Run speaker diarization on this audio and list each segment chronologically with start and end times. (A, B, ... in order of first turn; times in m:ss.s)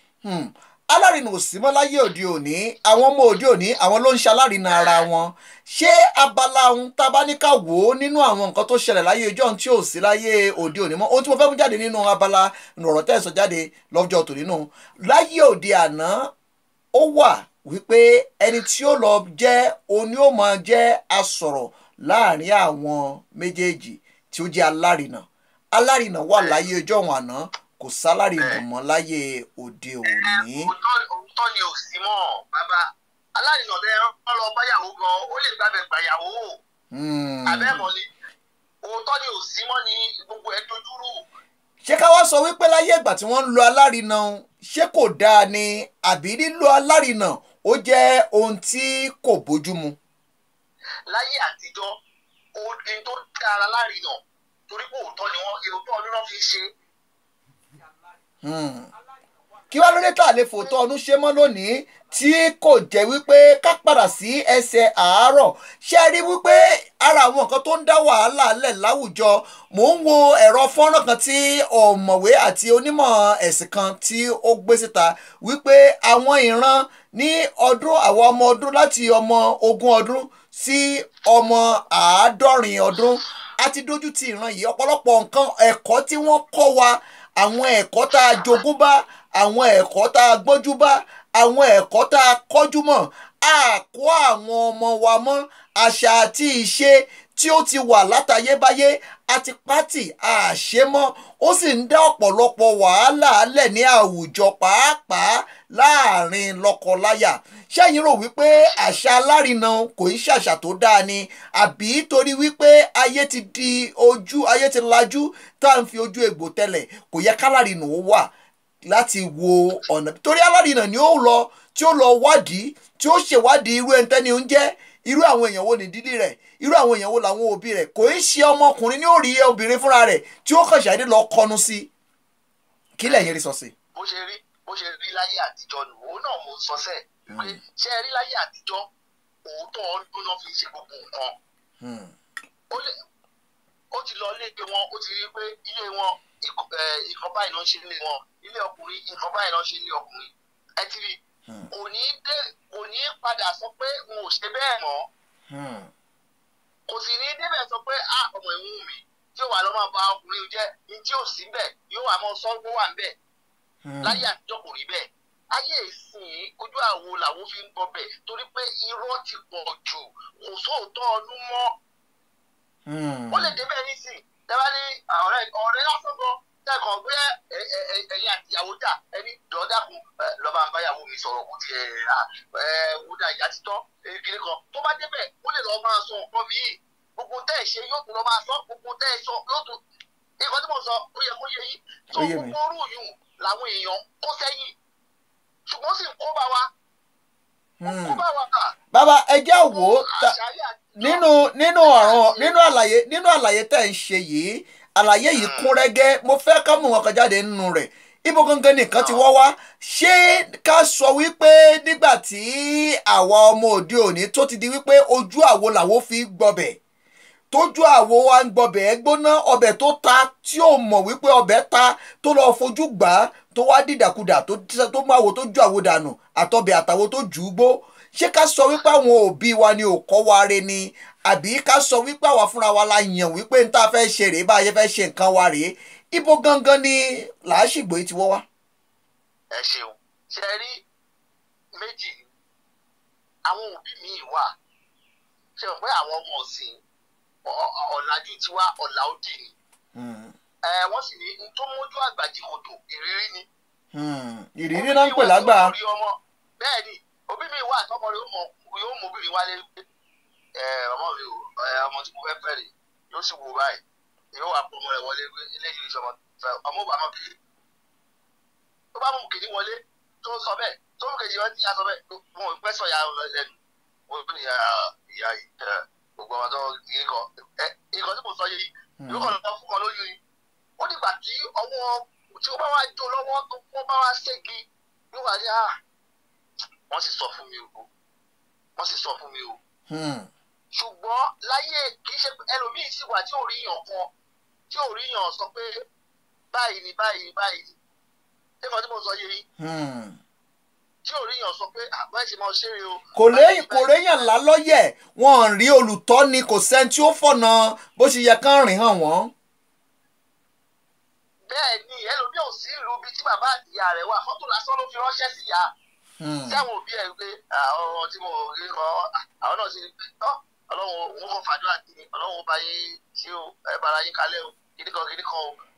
0:00.2-0:16.3 A
0:16.9-0:30.7 A
0:30.1-0:36.6 B
0:36.9-0:37.9 A
0:37.4-0:38.1 B
0:38.8-0:41.2 B
0:41.8-0:50.0 A
0:51.1-0:52.0 B
0:52.5-0:56.7 B
0:58.4-0:58.9 A
0:59.7-1:58.3 A
1:58.9-2:11.9 A
2:13.0-2:13.7 A
2:13.9-2:18.9 B
2:17.3-2:17.6 A
2:19.4-2:21.3 B
2:21.8-2:22.1 A
2:23.9-2:31.2 B
2:31.7-2:35.1 B
2:35.5-2:35.9 A
2:36.9-2:43.2 B
2:43.8-2:44.3 A
2:44.0-2:51.7 B
2:52.9-2:53.6 A
2:53.3-3:09.8 B
3:10.4-3:14.7 B
3:12.1-3:12.6 A
3:15.6-3:16.7 B
3:17.8-3:18.2 A
3:17.8-3:18.7 B
3:18.9-3:20.3 A
3:19.7-3:21.2 B
3:21.0-3:36.8 A
3:21.8-3:22.6 B
3:25.3-3:25.7 B
3:37.5-3:58.4 A
3:59.5-4:00.8 B
4:01.8-4:02.3 B
4:03.4-4:04.5 B
4:05.6-4:06.8 B
4:07.4-4:09.5 B
4:09.9-4:10.4 A
4:10.6-4:13.5 B
4:13.9-4:15.7 A
4:14.7-4:19.8 B
4:20.6-4:23.8 B
4:24.3-4:27.4 B
4:28.9-4:33.5 B
4:34.1-4:40.2 B
4:39.0-4:39.4 A
4:40.8-4:45.7 B
4:46.9-4:47.9 B
4:48.8-4:49.6 B
4:49.9-4:50.3 A
4:50.7-4:54.1 B
4:54.7-4:55.7 B
4:56.5-4:57.8 B
4:58.6-4:59.4 B
4:59.6-5:00.2 A
5:01.0-5:04.3 B
5:03.2-5:09.3 A
5:11.5-5:15.7 B
5:16.2-5:16.6 A
5:16.5-5:25.6 B